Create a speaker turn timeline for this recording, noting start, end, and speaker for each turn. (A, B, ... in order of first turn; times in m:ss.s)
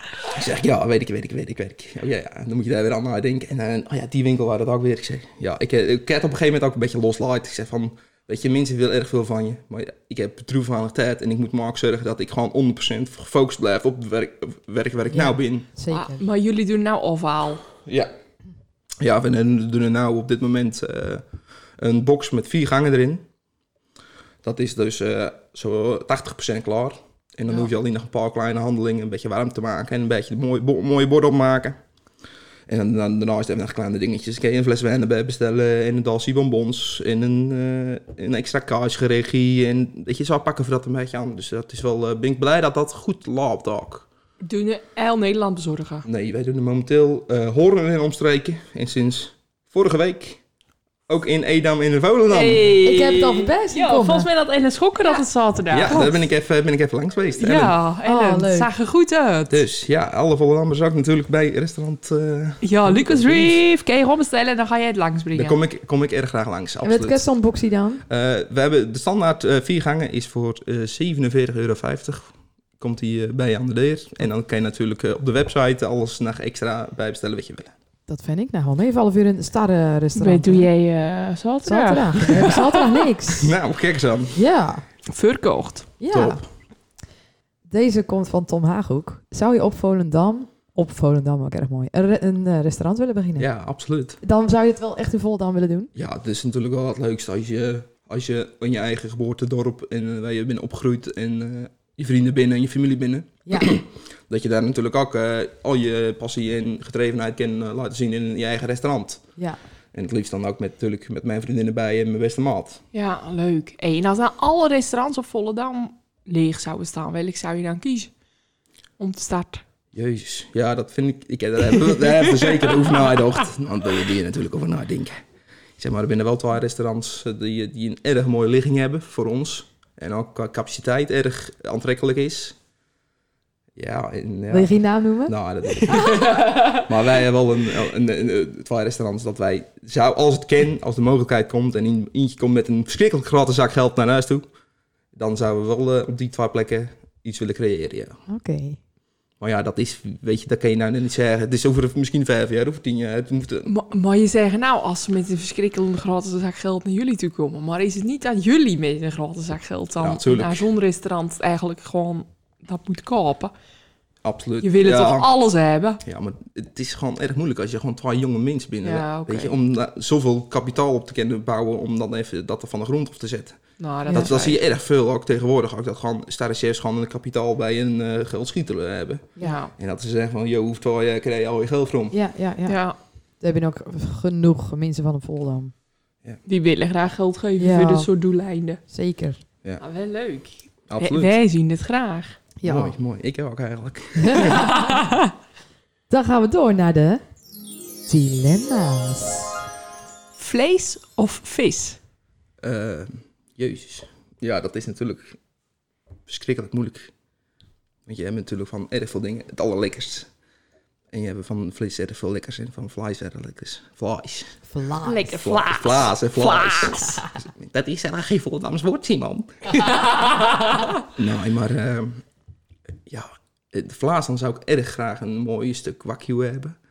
0:00.3-0:15.7 A
0:15.1-0:16.2 B
0:15.9-0:17.6 C
0:17.8-0:18.1 A
0:19.0-0:21.2 A
0:21.8-0:23.2 A
0:24.4-0:31.8 A
0:32.7-0:44.1 A
0:44.4-0:46.0 C
0:46.0-0:50.4 A
0:51.1-0:52.8 A
0:52.3-0:56.2 C
0:52.8-0:54.3 B
0:55.7-0:57.8 A
0:57.4-0:59.6 C
0:58.0-0:58.7 B
0:59.5-1:03.6 A
1:02.6-1:05.6 C
1:05.3-1:07.2 A
1:06.8-1:08.0 B
1:08.1-1:17.7 A
1:18.1-1:20.7 B
1:20.2-1:23.1 C
1:21.6-1:23.5 B
1:23.4-1:24.4 A
1:24.4-1:24.8 B
1:25.1-1:25.9 C
1:26.0-1:26.4 B
1:26.1-1:26.4 A
1:27.7-1:33.5 B
1:33.4-1:34.2 A
1:34.2-1:35.9 B
1:36.0-1:49.2 A
1:43.5-1:43.7 B
1:49.9-1:52.8 A
1:52.9-1:58.1 C
1:59.0-1:59.6 C
1:59.9-2:05.2 A
2:05.8-2:12.6 A
2:13.8-2:24.5 A
2:14.5-2:15.4 B
2:15.8-2:16.8 C
2:25.1-2:28.2 A
2:28.3-2:28.8 B
2:29.4-2:33.7 A
2:33.7-2:43.5 C
2:40.0-2:40.7 A
2:44.2-2:45.3 A
2:44.6-2:46.0 C
2:46.0-2:53.6 A
2:48.8-2:49.6 C
2:53.8-2:54.6 C
2:54.1-2:54.3 B
2:54.1-3:02.1 A
2:59.4-2:59.7 C
3:02.1-3:02.8 B
3:02.7-3:03.0 C
3:03.4-3:05.7 B
3:06.5-3:08.8 C
3:07.6-3:08.1 B
3:08.9-3:09.4 B
3:09.8-3:12.4 C
3:10.9-3:11.4 A
3:12.6-3:12.9 B
3:12.6-3:14.8 A
3:14.2-3:14.9 B
3:14.5-3:15.2 C
3:16.1-3:17.2 B
3:18.1-3:19.6 B
3:20.4-3:22.0 C
3:22.6-3:25.4 A
3:26.3-3:27.1 A
3:28.1-3:30.3 A
3:31.1-3:34.5 A
3:34.7-3:35.3 B
3:35.0-3:37.2 C
3:35.4-3:39.8 A
3:41.2-3:42.2 A
3:43.1-3:46.8 A